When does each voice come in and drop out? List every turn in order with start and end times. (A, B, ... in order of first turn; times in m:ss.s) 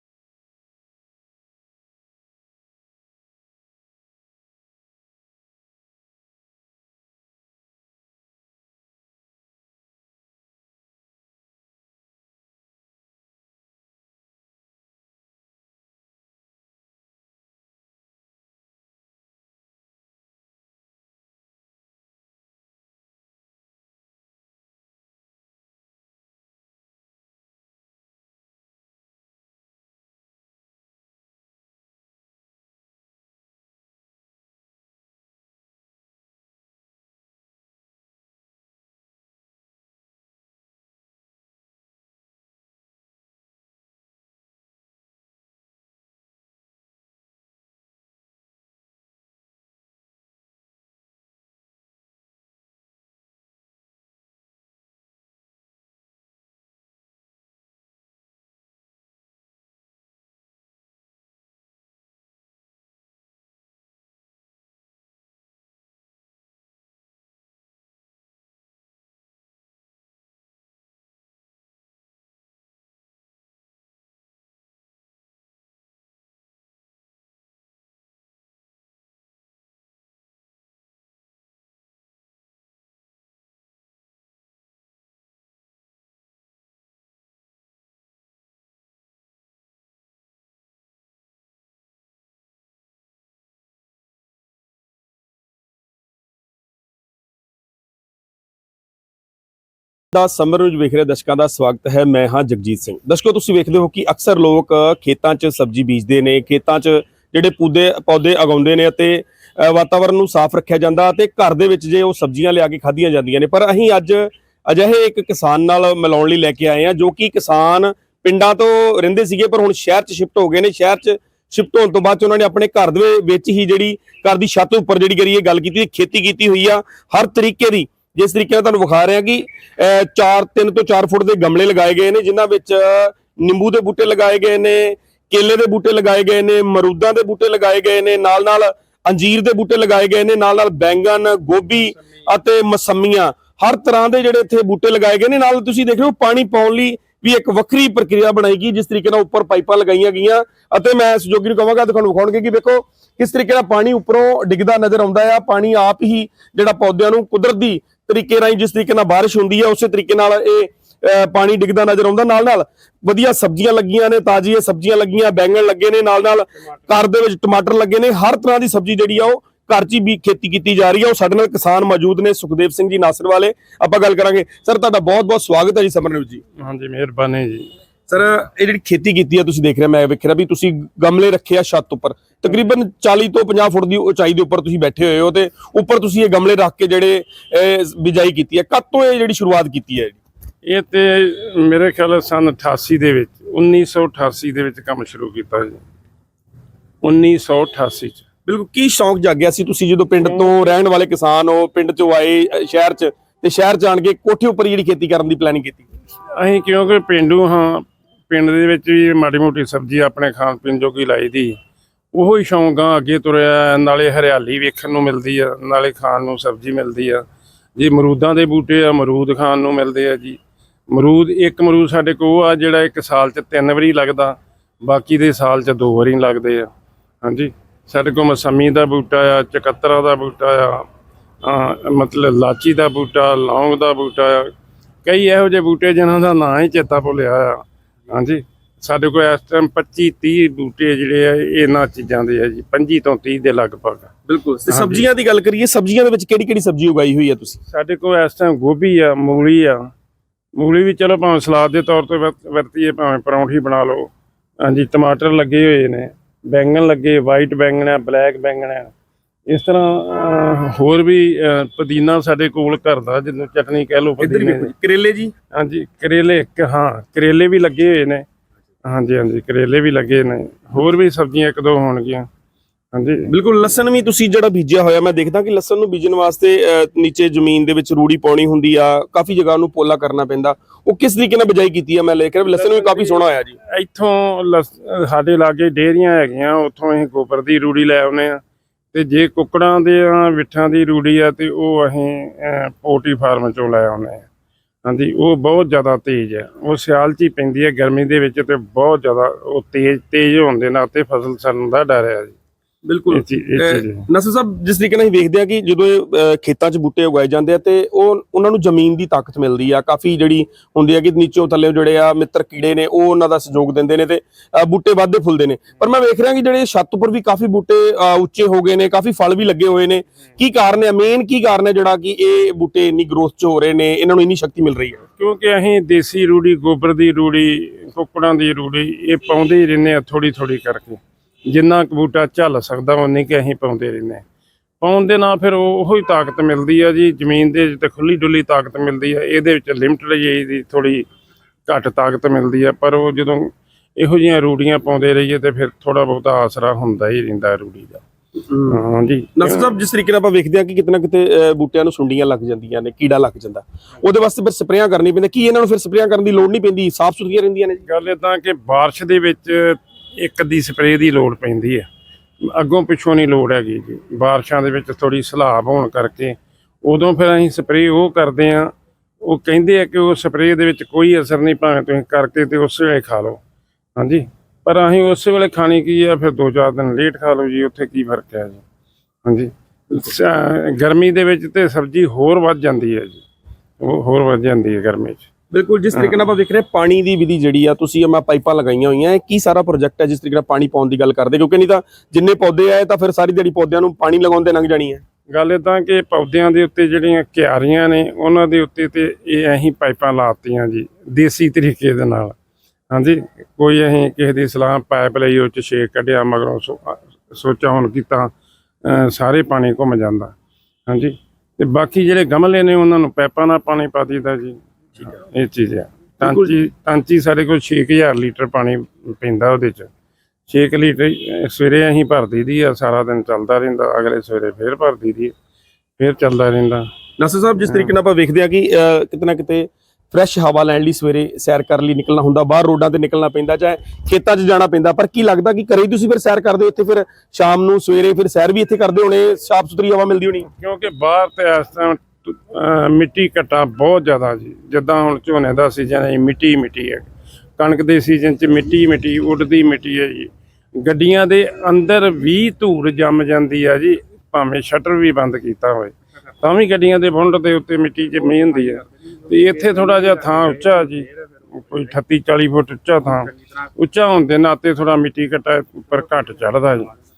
1:40.1-2:56.4 A
2:56.6-2:57.7 B
2:58.1-3:10.2 A
3:10.6-3:15.8 B
3:17.0-3:18.2 B
3:18.5-3:25.9 A
3:20.2-3:20.6 B
3:26.4-3:31.6 B
3:32.1-3:37.2 B
3:37.8-3:46.7 B
3:47.2-3:50.9 B
3:51.4-3:54.5 B
3:55.0-4:04.1 B
4:04.3-4:07.6 A
4:04.7-4:05.1 B
4:07.7-4:09.9 B
4:10.6-4:14.1 B
4:14.6-4:18.9 B
4:19.5-4:24.7 B
4:24.2-4:25.3 A
4:25.5-4:28.2 B
4:28.8-4:32.3 B
4:32.9-4:33.3 B
4:33.3-4:43.6 A
4:42.8-4:48.4 B
4:48.9-4:54.3 B
4:54.8-5:02.4 B
5:02.9-5:25.0 A
5:03.1-5:04.1 B
5:25.2-5:34.2 B
5:34.8-5:41.1 B
5:41.7-5:48.0 B
5:48.5-5:48.8 A
5:48.6-5:49.7 B
5:49.4-5:57.8 A
5:57.9-6:01.9 B
6:02.4-6:13.4 B
6:14.0-6:18.6 B
6:19.2-6:23.2 B
6:23.8-6:25.3 B
6:25.5-6:35.0 A
6:25.9-6:26.3 B
6:35.3-6:42.4 B
6:42.9-6:48.3 B
6:48.8-6:50.3 B
6:50.9-6:59.9 B
6:56.2-6:56.5 A
7:00.5-7:05.3 B
7:06.0-7:06.9 B
7:07.2-7:20.5 A
7:07.7-7:07.9 B
7:20.4-7:27.1 B
7:27.6-7:46.9 B